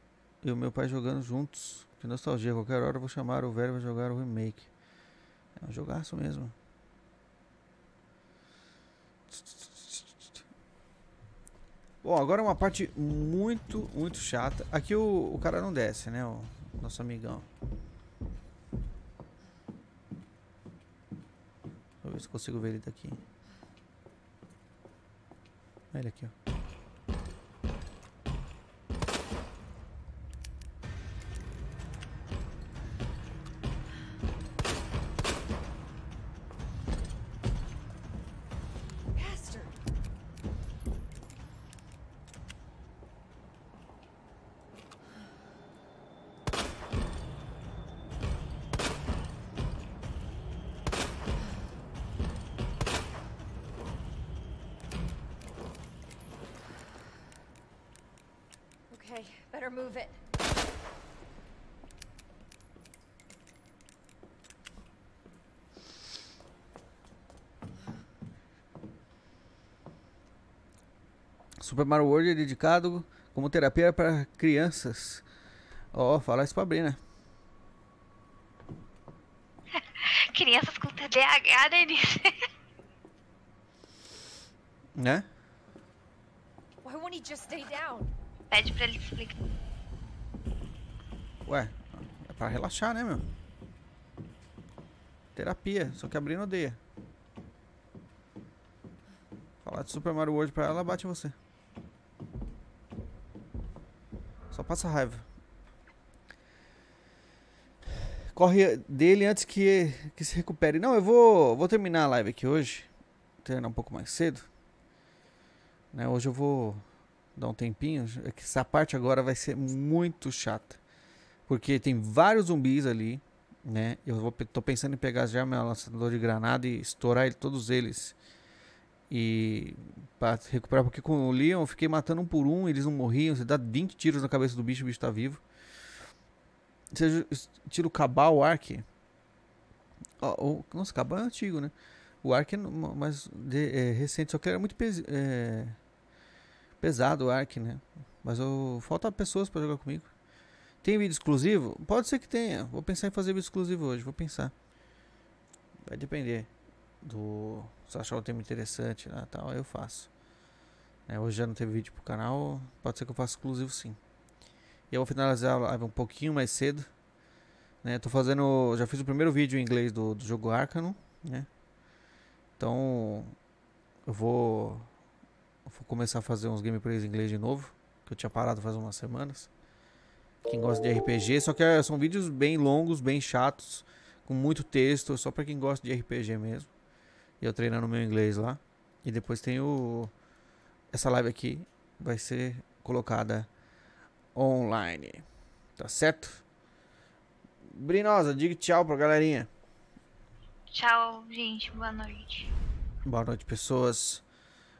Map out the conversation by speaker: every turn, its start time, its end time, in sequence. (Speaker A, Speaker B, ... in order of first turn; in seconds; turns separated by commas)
Speaker A: 0.4-4.7, Speaker A: 5.6-6.5, Speaker A: 9.3-10.3, Speaker A: 12.0-17.5, Speaker A: 22.0-23.2, Speaker A: 25.9-26.3, Speaker B: 39.1-39.8, Speaker B: 58.9-60.2, Speaker A: 71.6-75.2, Speaker A: 75.9-77.0, Speaker C: 79.7-82.4, Speaker A: 85.0-85.3, Speaker B: 86.8-88.1, Speaker C: 88.5-89.3, Speaker A: 91.5-93.2, Speaker A: 95.3-96.8, Speaker A: 99.6-101.3, Speaker A: 104.5-105.2, Speaker A: 108.3-112.9, Speaker A: 113.4-114.5, Speaker A: 115.9-120.8, Speaker A: 121.5-128.1, Speaker A: 129.1-135.4, Speaker A: 136.9-138.8, Speaker A: 140.2-145.8, Speaker A: 146.8-150.1, Speaker A: 150.8-154.5, Speaker A: 155.8-156.5, Speaker A: 157.0-160.1, Speaker A: 161.1-164.0, Speaker A: 164.9-166.9, Speaker A: 167.8-171.5, Speaker A: 172.6-173.4, Speaker A: 174.1-174.9, Speaker A: 175.7-179.5, Speaker A: 180.4-186.7, Speaker A: 187.4-190.1, Speaker A: 190.9-193.5, Speaker A: 194.3-195.2, Speaker A: 195.8-196.4, Speaker A: 197.7-199.5, Speaker C: 200.7-202.5, Speaker A: 203.0-204.2